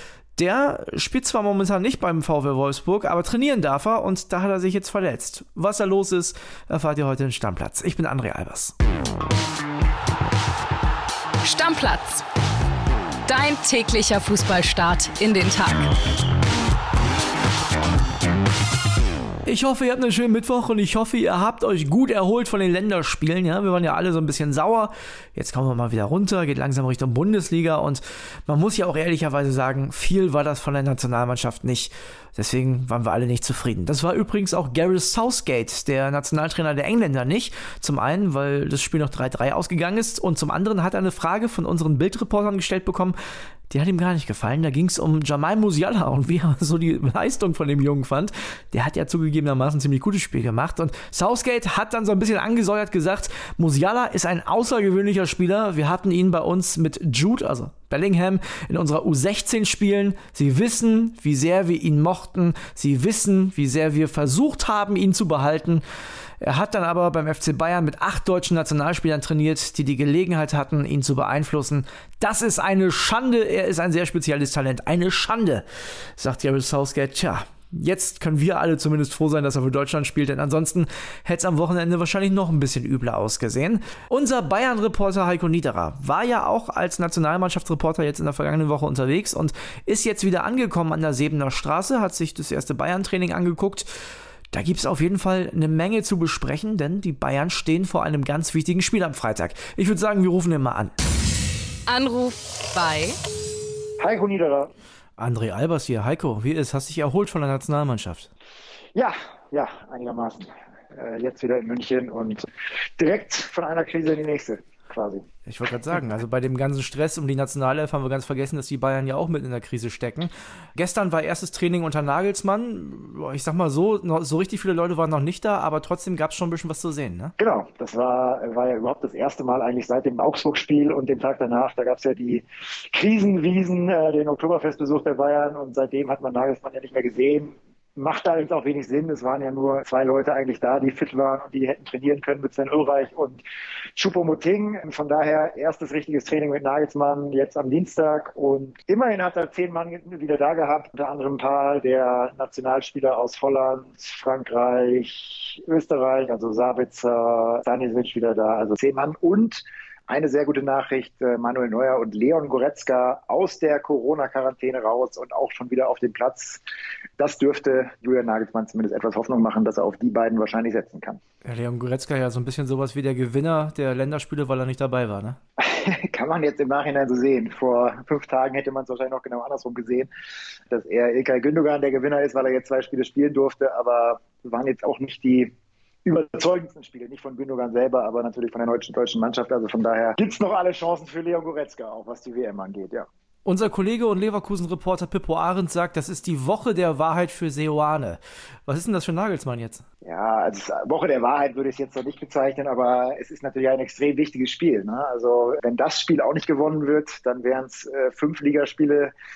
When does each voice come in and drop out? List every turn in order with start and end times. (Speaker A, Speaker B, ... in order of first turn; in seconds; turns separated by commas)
Speaker A: 0.4-8.7, Speaker B: 11.4-12.2, Speaker B: 13.3-15.9, Speaker A: 19.4-43.1, Speaker A: 43.7-65.8, Speaker A: 66.4-75.6, Speaker A: 76.2-93.9, Speaker A: 94.5-100.9, Speaker B: 101.9-103.2, Speaker C: 104.0-104.7, Speaker A: 105.2-108.3, Speaker C: 108.9-112.4, Speaker C: 113.0-115.2, Speaker A: 115.5-127.3, Speaker C: 127.4-143.4, Speaker C: 143.9-166.6, Speaker C: 167.2-171.2, Speaker A: 171.4-175.4, Speaker C: 175.6-180.1, Speaker C: 180.7-185.5, Speaker C: 186.0-193.1, Speaker A: 193.4-199.8, Speaker C: 200.0-209.1